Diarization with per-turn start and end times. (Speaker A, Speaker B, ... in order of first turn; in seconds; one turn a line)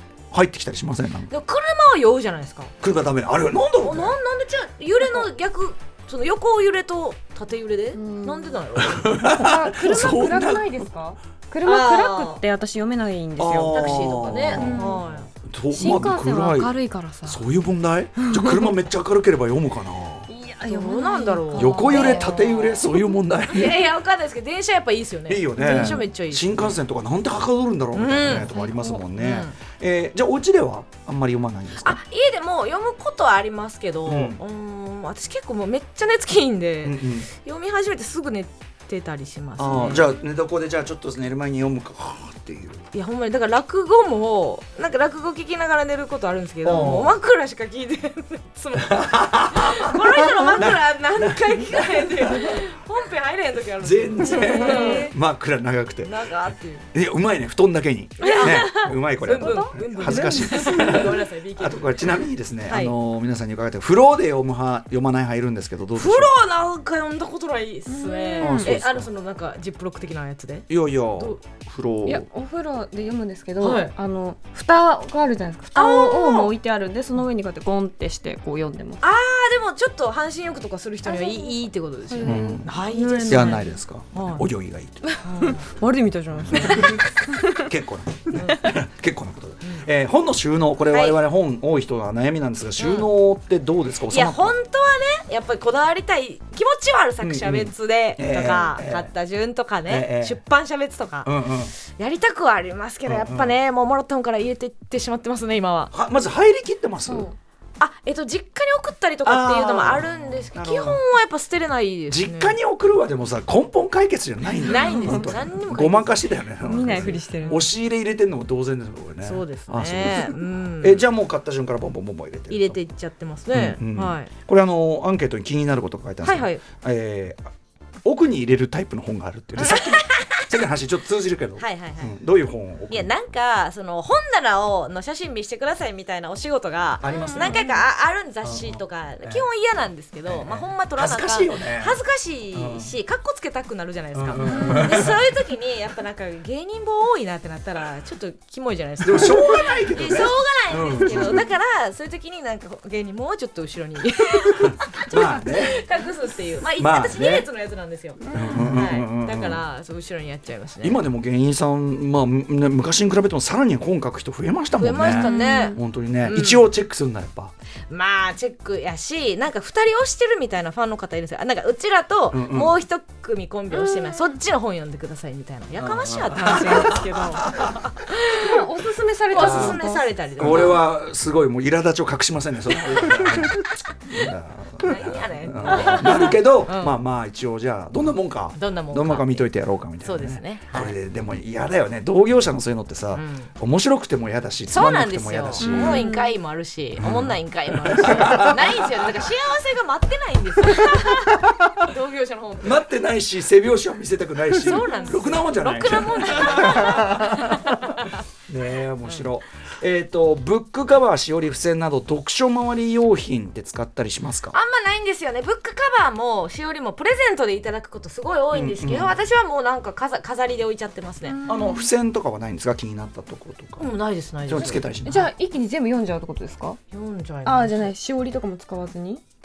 Speaker A: 0.3-1.3
Speaker B: 1.3-2.7
Speaker A: 2.8-4.1
Speaker B: 3.8-9.4
Speaker C: 7.9-8.6
Speaker A: 8.8-10.9
Speaker C: 9.3-15.1
Speaker B: 11.6-12.4
Speaker A: 13.4-16.7
Speaker B: 13.7-15.3
Speaker C: 15.7-17.4
Speaker A: 17.2-20.3
Speaker C: 18.2-18.7
Speaker C: 20.3-22.3
Speaker B: 20.7-22.9
Speaker A: 21.5-23.8
Speaker B: 23.5-26.8
Speaker A: 25.3-32.0
Speaker C: 25.6-26.0
Speaker B: 27.9-28.6
Speaker C: 28.3-29.0
Speaker B: 29.2-29.5
Speaker B: 31.8-40.1
Speaker A: 34.0-34.4
Speaker A: 36.8-37.3
Speaker A: 39.6-42.8
Speaker B: 42.9-55.1
Speaker A: 46.6-47.1
Speaker A: 48.8-52.6
Speaker A: 53.8-56.2
Speaker C: 54.3-55.1
Speaker B: 56.0-56.9
Speaker A: 56.9-66.3
Speaker B: 58.2-62.9
Speaker C: 58.3-58.7
Speaker C: 59.3-61.1
Speaker B: 65.9-71.4
Speaker C: 67.9-68.8
Speaker A: 68.4-69.1
Speaker A: 70.7-72.3
Speaker C: 72.0-79.0
Speaker B: 73.6-73.9
Speaker B: 75.7-76.5
Speaker B: 79.0-84.4
Speaker C: 81.0-83.7
Speaker A: 82.2-82.7
Speaker A: 83.3-85.2
Speaker C: 85.0-87.7
Speaker B: 85.2-85.7
Speaker A: 86.3-94.5
Speaker B: 86.5-87.0
Speaker B: 88.3-88.7
Speaker B: 90.9-91.2
Speaker B: 92.8-93.1
Speaker B: 94.1-105.9
Speaker A: 97.2-99.1
Speaker A: 99.9-100.4
Speaker A: 101.2-101.7
Speaker A: 103.0-103.5
Speaker A: 105.9-107.3
Speaker C: 107.0-107.3
Speaker B: 107.8-112.5
Speaker A: 109.2-111.0
Speaker A: 112.1-122.8
Speaker B: 114.6-117.7
Speaker C: 114.8-115.3
Speaker C: 116.6-117.6
Speaker B: 119.2-121.0
Speaker B: 122.5-124.3
Speaker A: 123.5-127.5
Speaker B: 126.2-126.6
Speaker A: 128.0-133.1
Speaker B: 129.6-130.5
Speaker B: 131.6-132.1
Speaker B: 132.9-161.0
Speaker A: 137.0-137.6
Speaker C: 137.2-137.6
Speaker A: 138.4-139.4
Speaker A: 140.3-142.0
Speaker A: 142.5-142.9
Speaker A: 144.1-145.2
Speaker C: 144.5-144.8
Speaker A: 149.0-151.4
Speaker A: 154.5-155.8
Speaker A: 156.8-157.5
Speaker C: 158.3-158.7
Speaker A: 158.3-159.6
Speaker A: 160.8-167.5
Speaker B: 164.8-166.7
Speaker C: 165.2-165.8
Speaker B: 167.9-178.6
Speaker A: 172.3-172.8
Speaker A: 175.8-177.8
Speaker C: 178.4-180.6
Speaker B: 179.3-180.9
Speaker A: 179.3-179.8
Speaker A: 180.4-196.0
Speaker B: 184.8-187.0
Speaker B: 188.6-189.5
Speaker B: 190.0-190.9
Speaker B: 193.1-193.5
Speaker B: 194.7-202.8
Speaker C: 195.6-196.3
Speaker A: 197.0-199.2
Speaker A: 202.6-207.8
Speaker B: 204.6-208.1
Speaker A: 208.5-214.6
Speaker B: 214.5-221.4
Speaker A: 218.5-219.2
Speaker C: 221.3-221.9
Speaker A: 221.4-223.9
Speaker B: 223.8-224.8
Speaker A: 224.5-225.3
Speaker C: 225.0-226.8
Speaker B: 226.9-227.9
Speaker C: 227.4-229.2